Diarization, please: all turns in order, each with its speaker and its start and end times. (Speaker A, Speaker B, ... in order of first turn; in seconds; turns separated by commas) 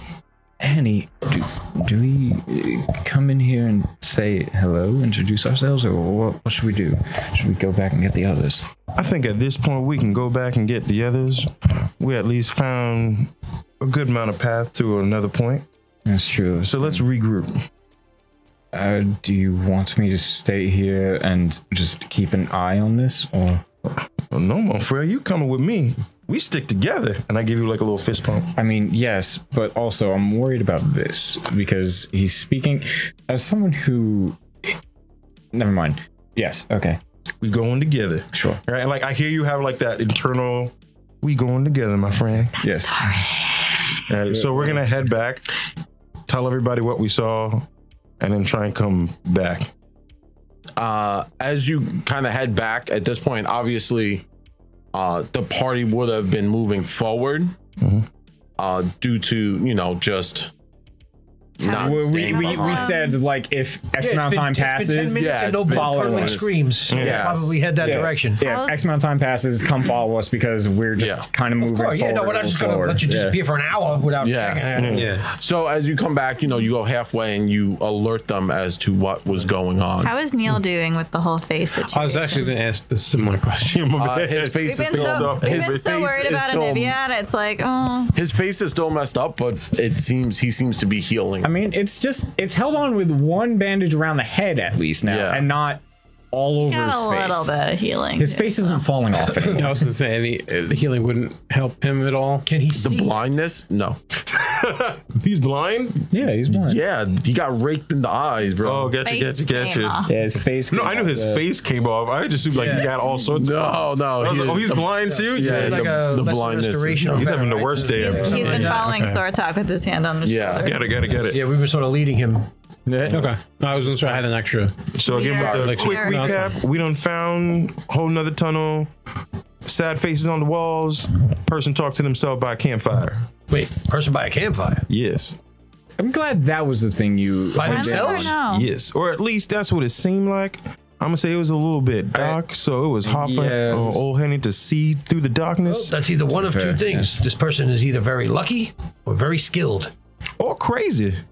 Speaker A: 0.6-8.7, Speaker B: 8.9-15.7, Speaker A: 16.0-17.0, Speaker B: 16.6-17.6, Speaker A: 18.7-23.6, Speaker B: 24.3-28.5, Speaker A: 28.5-34.7, Speaker A: 35.5-37.0, Speaker B: 37.4-42.5, Speaker A: 38.3-38.6, Speaker C: 42.5-43.9, Speaker A: 42.5-43.2, Speaker B: 44.1-45.5, Speaker A: 44.3-44.8, Speaker B: 46.3-47.7, Speaker B: 48.2-49.7, Speaker D: 50.8-54.2, Speaker D: 54.9-57.5, Speaker B: 57.8-58.1, Speaker D: 58.6-60.5, Speaker D: 61.6-62.9, Speaker C: 61.6-63.2, Speaker A: 61.6-66.5, Speaker E: 64.0-68.5, Speaker D: 65.1-67.3, Speaker B: 66.9-67.5, Speaker A: 67.0-73.4, Speaker C: 68.4-68.9, Speaker D: 71.0-71.3, Speaker E: 71.6-75.1, Speaker D: 74.2-80.1, Speaker B: 74.7-75.1, Speaker F: 74.9-75.3, Speaker C: 80.0-82.5, Speaker F: 81.8-83.9, Speaker B: 83.7-85.8, Speaker D: 84.0-87.0, Speaker C: 84.6-88.2, Speaker D: 88.1-91.5, Speaker A: 91.4-95.8, Speaker D: 95.0-95.5, Speaker A: 96.3-97.5, Speaker C: 96.7-98.8, Speaker A: 98.2-99.8, Speaker F: 99.5-102.5, Speaker E: 102.5-103.2, Speaker D: 102.7-104.0, Speaker B: 104.3-106.1, Speaker A: 106.1-106.8, Speaker D: 106.5-109.0, Speaker B: 108.6-110.1, Speaker C: 109.0-110.1, Speaker A: 110.0-111.5, Speaker B: 110.7-116.0, Speaker E: 112.5-112.9, Speaker D: 113.3-117.4, Speaker E: 115.1-118.9, Speaker B: 117.1-118.8, Speaker C: 118.0-120.9, Speaker F: 118.8-119.2, Speaker D: 120.2-120.7, Speaker B: 120.6-121.4, Speaker E: 121.1-122.5, Speaker A: 122.9-123.2, Speaker F: 123.0-126.5, Speaker B: 124.9-128.9, Speaker C: 125.0-126.5, Speaker B: 129.6-133.2, Speaker E: 133.5-134.8, Speaker B: 134.9-135.4, Speaker A: 136.0-138.4, Speaker E: 137.5-138.4, Speaker C: 137.6-138.7, Speaker B: 138.4-146.1, Speaker A: 143.0-144.0, Speaker E: 145.6-149.9, Speaker A: 146.3-147.2, Speaker B: 150.4-151.2